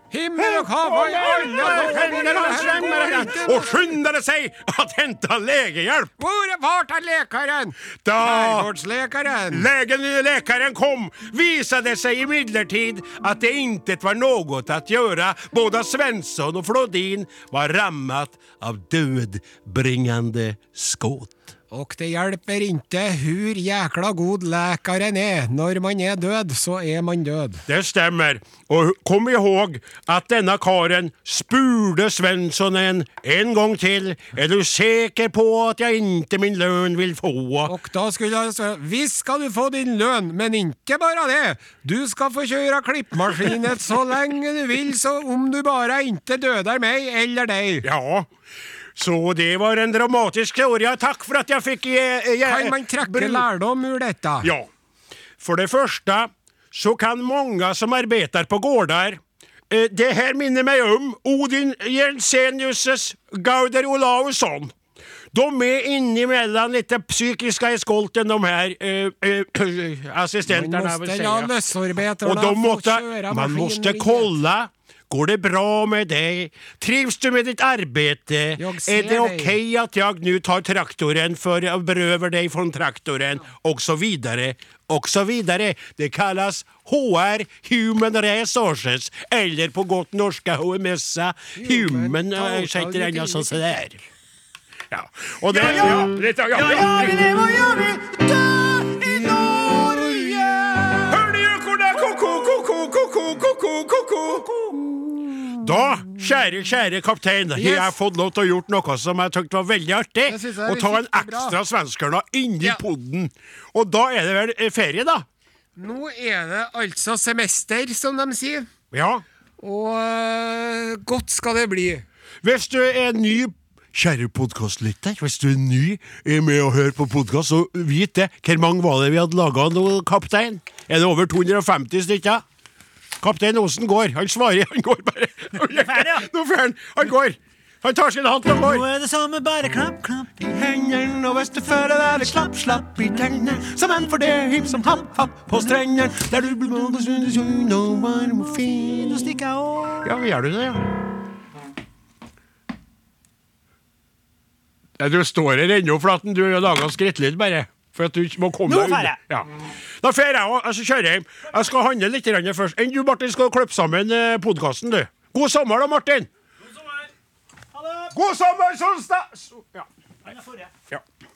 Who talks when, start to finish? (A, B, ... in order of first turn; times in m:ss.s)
0:00.1-0:03.9 A
0:00.4-0:06.1 B
0:06.2-0:09.7 A
0:08.0-0:08.7 B
0:09.5-0:21.4 B
0:21.7-0:27.6 A
0:27.7-0:37.7 B
0:37.6-0:47.9 A
0:47.8-0:48.3 B
0:49.0-0:53.4 B
0:52.4-0:54.5 A
0:54.4-0:54.7 B
0:55.4-1:04.7 B
1:05.3-1:11.6 B
1:10.5-1:14.3 A
1:12.2-1:34.0 B
1:18.6-1:19.6 A
1:31.5-1:33.8 A
1:34.9-1:37.4 B
1:35.5-1:40.1 C
1:38.8-1:40.0 B
1:39.0-1:41.0 A
1:41.0-1:55.2 B
1:47.5-1:48.0 A
1:50.3-1:51.6 A
1:55.8-1:58.7 A
1:58.9-1:59.2 B
1:59.6-2:02.0 A
2:02.4-2:12.4 B
2:13.2-2:18.8 B
2:15.7-2:16.2 C
2:18.5-2:20.4 C
2:20.4-2:29.3 B
2:29.0-2:30.1 C
2:30.0-2:30.8 B
2:35.0-2:39.5 B
2:38.7-2:39.2 C
2:40.0-2:46.3 B
2:47.8-2:48.1 C
2:48.1-2:49.9 B
2:50.2-2:50.7 C